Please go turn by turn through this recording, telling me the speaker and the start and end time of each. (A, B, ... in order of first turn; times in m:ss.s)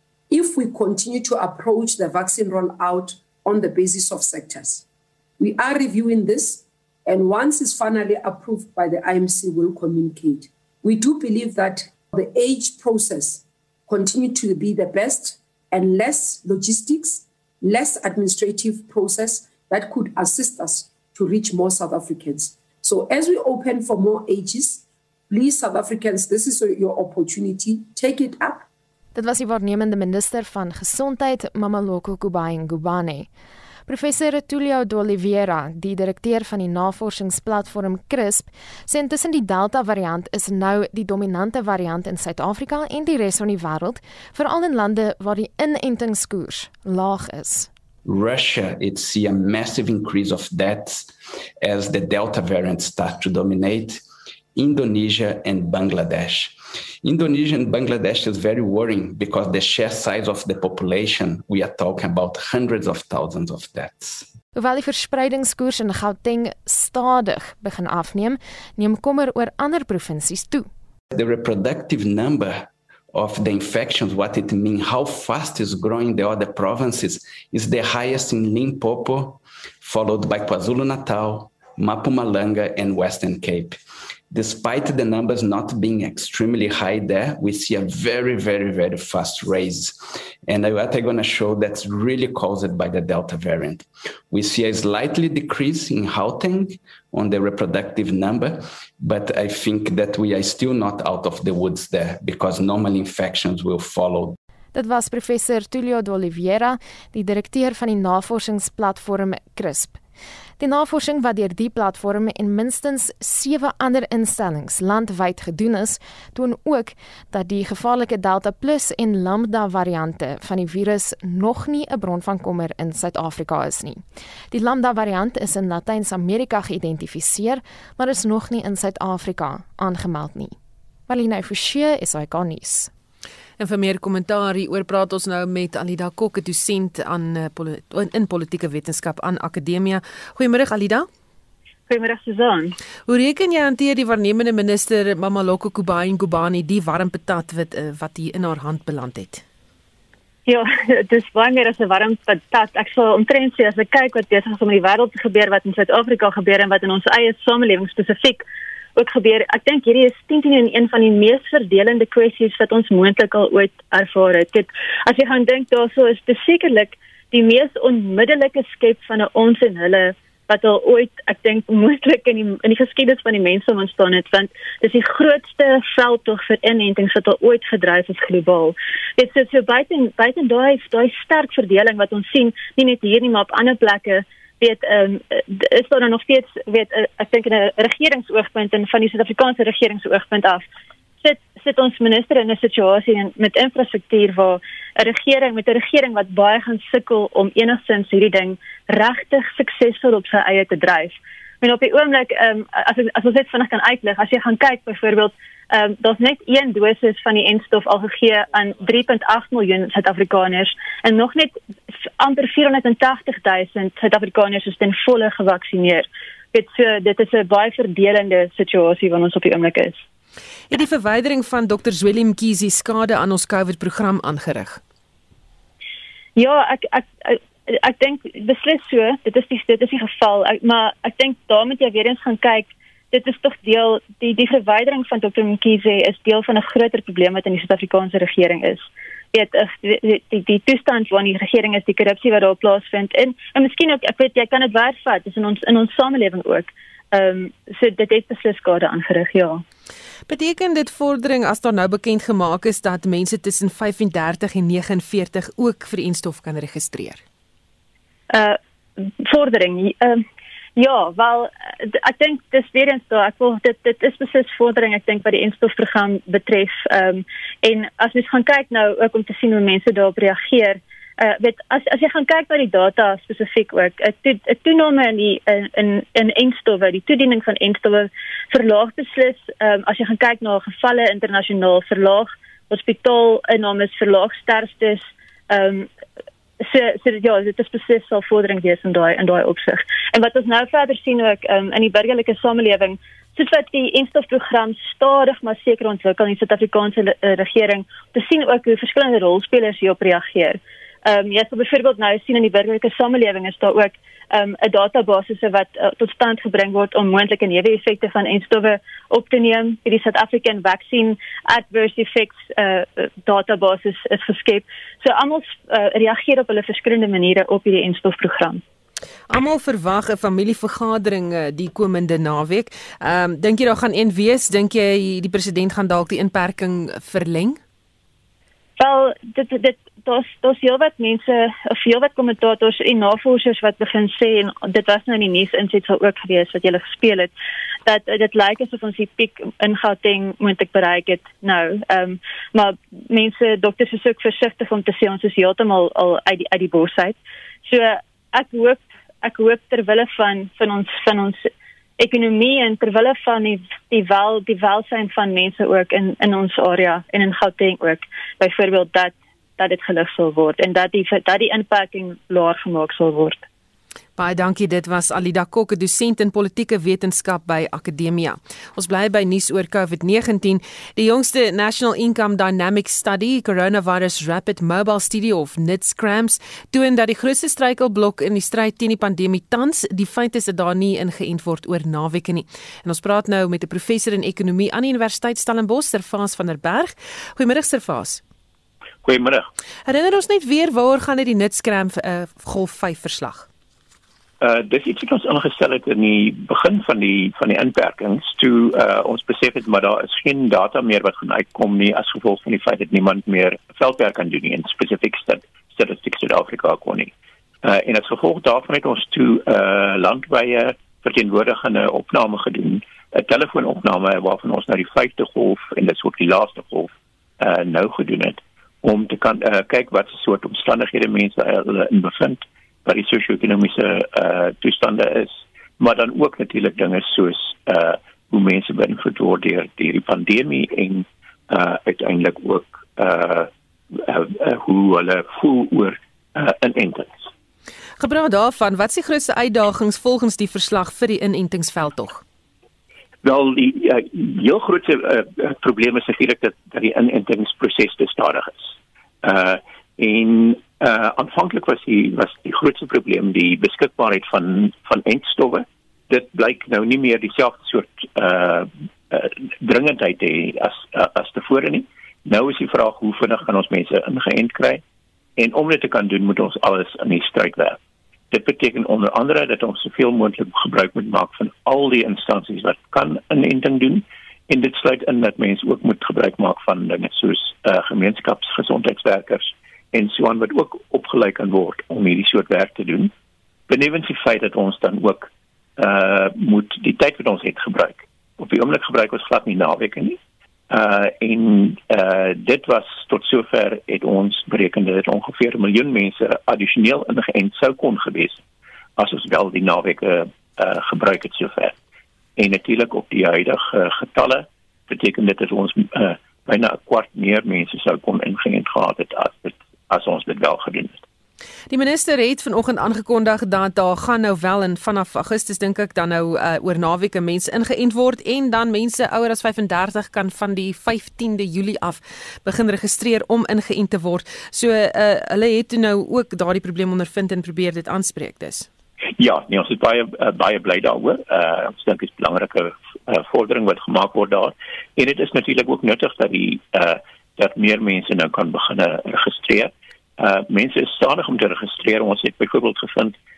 0:00.3-0:04.8 A
0:05.4-0:28.7 A
0:29.2-0:33.3 B
0:33.9-0:47.7 B
0:48.0-0:54.0 C
0:54.6-1:04.3 C
1:04.6-1:10.7 B
1:11.1-1:23.8 C
1:24.3-1:44.4 C
1:44.7-1:50.0 B
1:50.6-2:10.6 B
2:11.1-2:12.9 B
2:13.6-2:21.1 D
2:21.9-2:22.8 E
2:23.1-2:29.4 D
2:30.5-2:38.4 E
2:39.0-3:10.7 E
3:11.2-3:40.0 E
3:40.7-3:44.8 D
3:46.4-4:09.6 E
4:10.3-4:17.2 D
4:18.3-4:20.2 E
4:20.8-4:45.9 E
4:46.6-5:18.6 E
5:19.3-5:27.6 D
5:28.8-5:37.3 E
5:37.9-6:03.4 E
6:04.2-6:28.2 D
6:29.0-6:29.5 F
6:29.9-6:33.5 D
6:34.4-6:47.1 F
6:47.6-7:17.3 F
7:18.0-7:22.2 D
7:23.2-7:44.8 F
7:45.4-7:47.8 F
7:48.3-8:03.1 F
8:03.7-8:10.2 F
8:10.7-8:18.4 F
8:19.0-8:21.8 F
8:22.4-8:31.0 F
8:31.7-8:48.7 D
8:49.2-9:03.2 F